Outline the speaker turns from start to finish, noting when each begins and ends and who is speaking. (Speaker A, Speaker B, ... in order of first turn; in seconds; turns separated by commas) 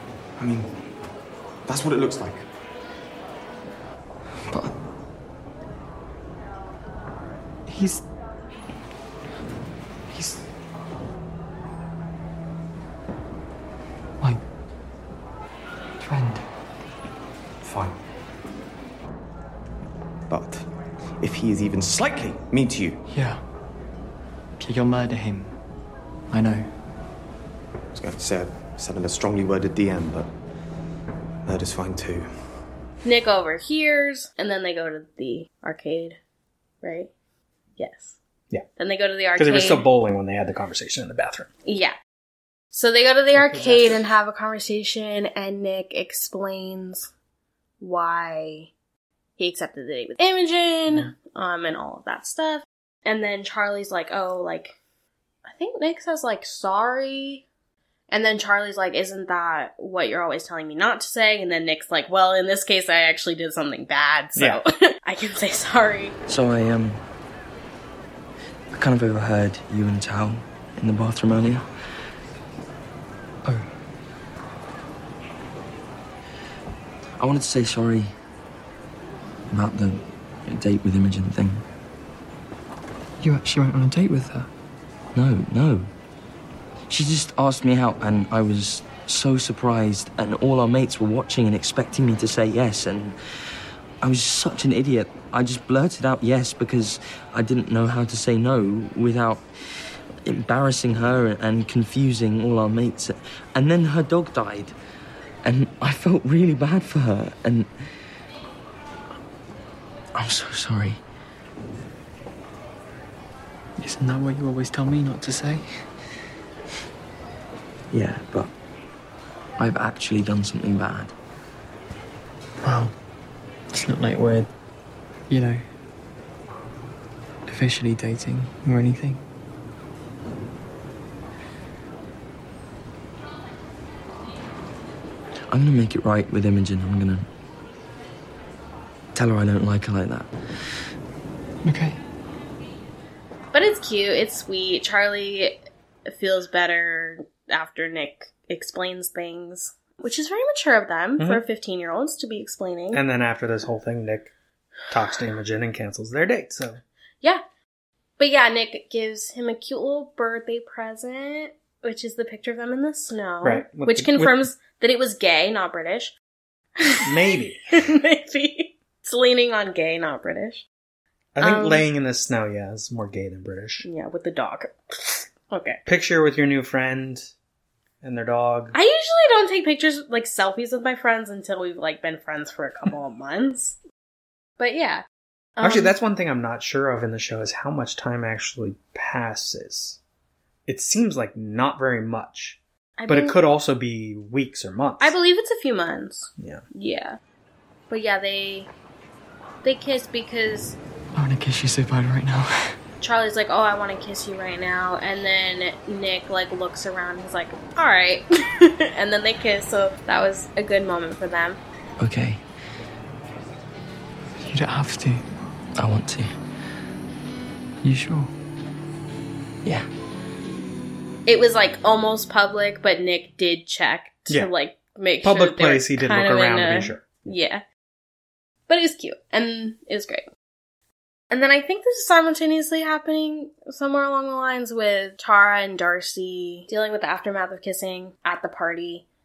Speaker A: 0.4-0.7, Speaker A: 1.6-2.4, Speaker B: 4.5-4.7, Speaker B: 7.7-8.0, Speaker B: 10.1-10.4, Speaker B: 16.0-16.4, Speaker A: 17.6-17.9, Speaker A: 20.3-20.7, Speaker A: 21.2-23.0, Speaker B: 23.1-23.4, Speaker B: 24.6-25.6, Speaker B: 26.3-26.7, Speaker A: 27.9-30.3, Speaker A: 31.4-32.3, Speaker C: 33.0-36.2, Speaker C: 36.8-37.1, Speaker C: 37.8-38.1, Speaker C: 38.8-39.9, Speaker D: 39.4-41.5, Speaker C: 41.6-41.9, Speaker C: 42.7-47.1, Speaker D: 43.3-44.0, Speaker C: 47.8-48.7, Speaker C: 49.4-54.7, Speaker C: 55.4-57.4, Speaker C: 58.1-66.2, Speaker D: 64.3-64.6, Speaker E: 66.3-67.0, Speaker E: 68.7-71.7, Speaker E: 77.2-78.1, Speaker E: 79.5-81.6, Speaker B: 83.2-84.5, Speaker E: 85.1-85.9, Speaker E: 86.9-93.2, Speaker E: 94.0-99.5, Speaker E: 100.2-104.8, Speaker E: 105.4-107.7, Speaker E: 110.1-111.0, Speaker B: 113.8-115.8, Speaker E: 117.9-118.5, Speaker E: 119.6-121.1, Speaker B: 122.6-122.9, Speaker B: 123.7-124.5, Speaker B: 125.3-125.6, Speaker B: 127.5-129.2, Speaker E: 135.5-137.3, Speaker E: 139.1-140.3, Speaker B: 141.6-142.0, Speaker C: 143.5-153.0, Speaker D: 151.2-151.4, Speaker D: 152.9-154.3, Speaker D: 154.9-156.8, Speaker C: 158.2-166.1, Speaker D: 163.4-164.4, Speaker C: 166.8-170.6, Speaker D: 167.0-167.7, Speaker D: 171.4-173.8, Speaker C: 171.4-171.8, Speaker C: 173.8-175.8, Speaker D: 175.8-177.3, Speaker D: 178.0-178.7, Speaker C: 178.7-183.8, Speaker C: 184.6-185.0, Speaker C: 185.6-185.9, Speaker D: 185.6-190.0, Speaker D: 190.7-195.1, Speaker C: 193.0-193.4, Speaker C: 195.0-197.2, Speaker C: 197.9-198.7, Speaker C: 199.6-200.8, Speaker B: 201.1-202.8, Speaker C: 203.0-211.6, Speaker E: 212.0-212.4, Speaker B: 214.4-215.3, Speaker E: 215.8-216.3, Speaker B: 217.8-218.3, Speaker C: 221.2-227.6, Speaker D: 225.2-227.2, Speaker C: 228.7-230.3, Speaker C: 231.3-239.0